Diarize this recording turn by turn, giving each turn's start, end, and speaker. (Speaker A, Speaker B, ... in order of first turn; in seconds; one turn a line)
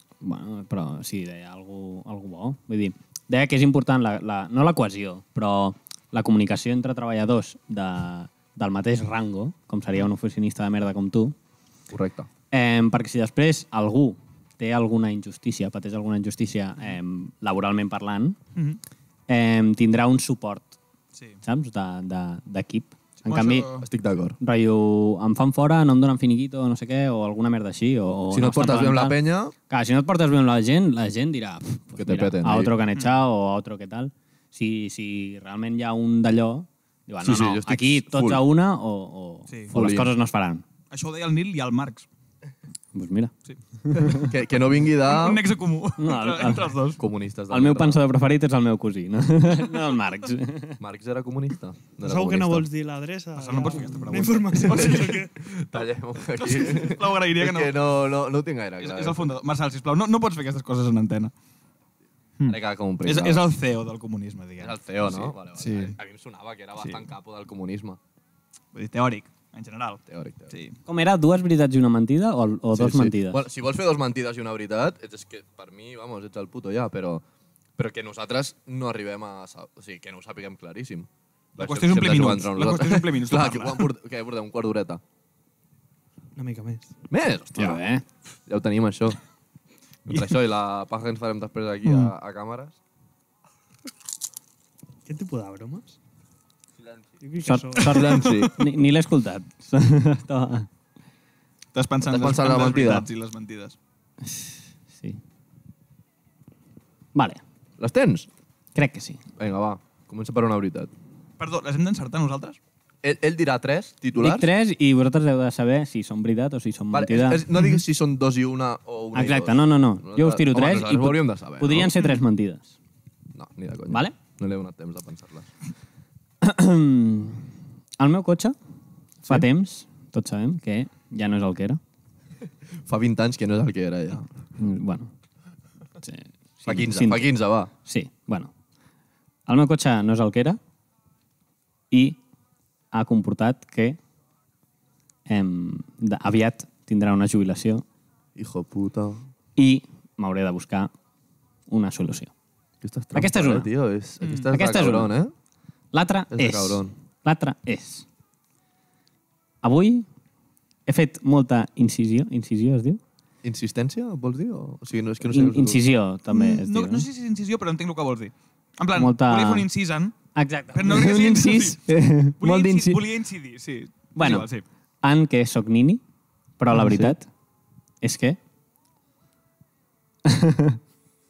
Speaker A: 0.2-11.3
Speaker B: 11.9-12.3
Speaker A: 12.5-18.4
Speaker C: 18.5-18.8
Speaker A: 19.3-20.8
Speaker C: 21.1-21.4
Speaker A: 21.4-23.7
Speaker C: 23.2-23.9
Speaker B: 23.8-24.4
Speaker A: 24.4-29.2
Speaker B: 28.3-29.5
Speaker A: 29.7-40.6
Speaker B: 31.9-32.7
Speaker B: 37.2-38.4
Speaker B: 39.7-40.1
Speaker C: 40.9-42.1
Speaker A: 42.9-43.3
Speaker A: 43.8-44.2
Speaker B: 43.9-45.4
Speaker C: 45.0-47.0
Speaker A: 46.0-46.8
Speaker B: 47.0-48.0
Speaker A: 47.5-50.8
Speaker B: 50.8-52.7
Speaker D: 52.0-55.3
Speaker C: 53.4-55.2
Speaker B: 54.7-59.3
Speaker C: 56.4-57.7
Speaker C: 58.8-61.3
Speaker C: 62.4-66.0
Speaker B: 62.5-63.5
Speaker B: 64.6-68.0
Speaker C: 66.8-67.0
Speaker C: 68.7-70.8
Speaker B: 70.1-70.5
Speaker A: 70.8-73.4
Speaker B: 72.7-77.2
Speaker B: 77.8-85.0
Speaker C: 81.6-83.8
Speaker D: 86.3-86.9
Speaker B: 87.1-87.8
Speaker A: 87.6-88.0
Speaker B: 88.5-89.2
Speaker B: 90.0-92.8
Speaker D: 95.0-96.0
Speaker D: 97.2-98.3
Speaker A: 97.4-100.7
Speaker B: 97.8-98.6
Speaker C: 101.7-103.8
Speaker B: 102.0-103.1
Speaker A: 104.2-105.2
Speaker A: 107.1-107.4
Speaker B: 107.8-108.3
Speaker A: 108.7-109.2
Speaker B: 109.4-110.9
Speaker C: 111.4-112.6
Speaker B: 113.0-114.5
Speaker A: 114.2-117.4
Speaker B: 116.9-121.9
Speaker A: 119.1-122.7
Speaker B: 123.3-125.5
Speaker A: 126.4-128.5
Speaker A: 129.2-131.8
Speaker B: 132.8-134.3
Speaker A: 134.6-135.1
Speaker A: 136.0-138.5
Speaker B: 136.7-137.7
Speaker A: 139.5-140.6
Speaker A: 141.9-142.2
Speaker A: 142.9-144.0
Speaker A: 145.3-147.8
Speaker B: 148.3-149.2
Speaker A: 149.6-150.9
Speaker A: 151.7-152.3
Speaker B: 152.8-155.3
Speaker A: 153.1-153.7
Speaker C: 154.2-154.5
Speaker A: 154.5-155.1
Speaker A: 155.9-158.1
Speaker B: 156.3-156.9
Speaker A: 159.6-160.1
Speaker A: 160.8-163.0
Speaker B: 163.4-165.8
Speaker A: 165.3-167.1
Speaker C: 166.3-170.1
Speaker A: 168.9-169.7
Speaker A: 170.3-173.0
Speaker C: 170.7-171.8
Speaker C: 172.4-174.6
Speaker A: 174.2-174.5
Speaker A: 175.0-176.0
Speaker A: 176.6-177.3
Speaker B: 176.7-177.2
Speaker A: 178.0-178.4
Speaker A: 180.2-180.8